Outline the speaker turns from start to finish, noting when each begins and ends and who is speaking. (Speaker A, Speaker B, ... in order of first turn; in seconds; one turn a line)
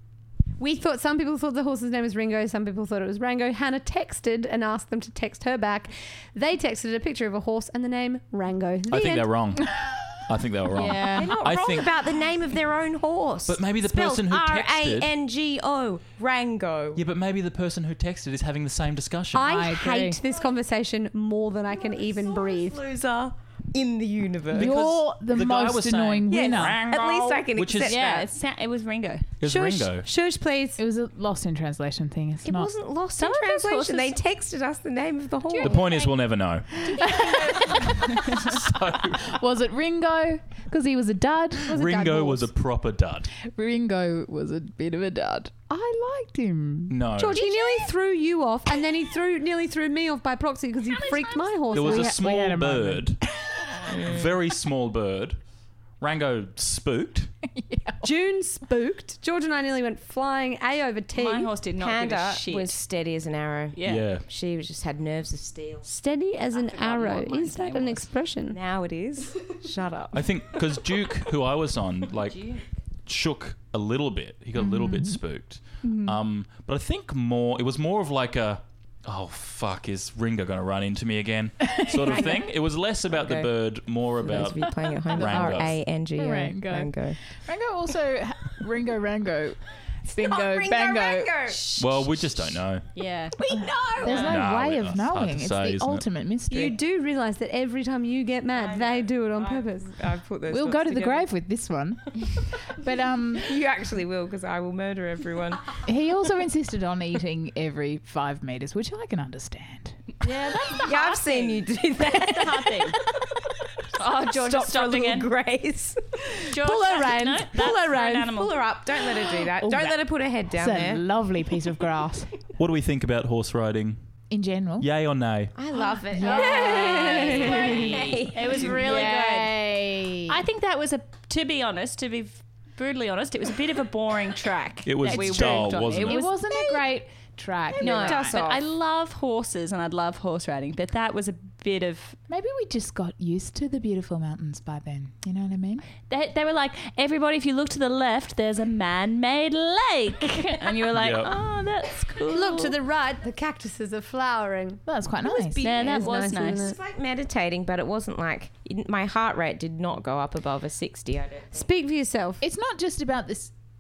Speaker A: 0.6-9.3
Speaker B: 8.9-11.9
Speaker C: 10.7-11.3
Speaker D: 10.8-11.2
Speaker E: 11.1-17.0
Speaker B: 13.5-15.1
Speaker B: 16.9-19.5
Speaker A: 19.3-22.9
Speaker C: 19.4-20.2
Speaker E: 21.7-24.8
Speaker C: 24.5-26.8
Speaker B: 24.5-28.0
Speaker E: 26.3-28.4
Speaker D: 27.8-29.3
Speaker B: 29.4-30.1
Speaker A: 29.4-30.8
Speaker C: 30.8-32.7
Speaker E: 32.4-36.1
Speaker D: 33.2-34.2
Speaker B: 35.6-36.8
Speaker E: 36.8-37.9
Speaker C: 36.9-41.8
Speaker B: 38.1-39.4
Speaker A: 41.7-42.5
Speaker B: 41.7-43.3
Speaker C: 43.4-47.6
Speaker B: 46.9-47.5
Speaker A: 47.2-52.2
Speaker C: 51.0-53.8
Speaker B: 51.7-53.2
Speaker E: 53.9-54.3
Speaker B: 53.9-55.4
Speaker B: 56.0-57.3
Speaker C: 57.5-58.1
Speaker A: 58.0-61.6
Speaker D: 61.1-62.8
Speaker E: 61.8-65.9
Speaker D: 63.8-64.1
Speaker B: 63.8-64.2
Speaker A: 65.8-68.6
Speaker E: 66.8-67.9
Speaker D: 66.9-68.0
Speaker E: 68.5-70.3
Speaker B: 70.1-72.5
Speaker D: 72.3-72.6
Speaker B: 73.1-85.8
Speaker C: 74.6-75.2
Speaker C: 75.8-76.1
Speaker C: 81.7-82.3
Speaker E: 82.0-82.6
Speaker E: 83.1-83.5
Speaker E: 84.2-87.2
Speaker C: 85.1-91.6
Speaker E: 90.2-91.9
Speaker B: 91.8-92.9
Speaker D: 92.9-93.4
Speaker E: 93.4-94.4
Speaker C: 93.5-96.8
Speaker B: 94.1-96.1
Speaker A: 96.5-100.0
Speaker E: 98.5-101.3
Speaker C: 100.5-103.5
Speaker E: 103.4-105.8
Speaker C: 105.8-110.1
Speaker D: 110.2-113.0
Speaker E: 110.7-113.0
Speaker C: 112.1-112.7
Speaker D: 113.9-115.3
Speaker E: 114.0-116.5
Speaker D: 116.5-118.6
Speaker C: 116.7-117.5
Speaker E: 117.5-121.0
Speaker C: 119.4-122.4
Speaker B: 122.6-124.0
Speaker C: 124.3-124.9
Speaker B: 124.8-125.5
Speaker E: 125.5-129.1
Speaker C: 125.8-130.4
Speaker D: 126.2-129.6
Speaker D: 130.3-136.4
Speaker B: 134.8-136.2
Speaker C: 135.1-138.4
Speaker E: 137.8-138.6
Speaker D: 137.8-142.2
Speaker C: 142.3-145.9
Speaker D: 146.1-152.8
Speaker B: 150.9-151.3
Speaker A: 152.3-156.8
Speaker C: 154.9-155.9
Speaker E: 155.6-161.7
Speaker D: 155.6-156.8
Speaker A: 161.5-162.4
Speaker C: 162.4-163.5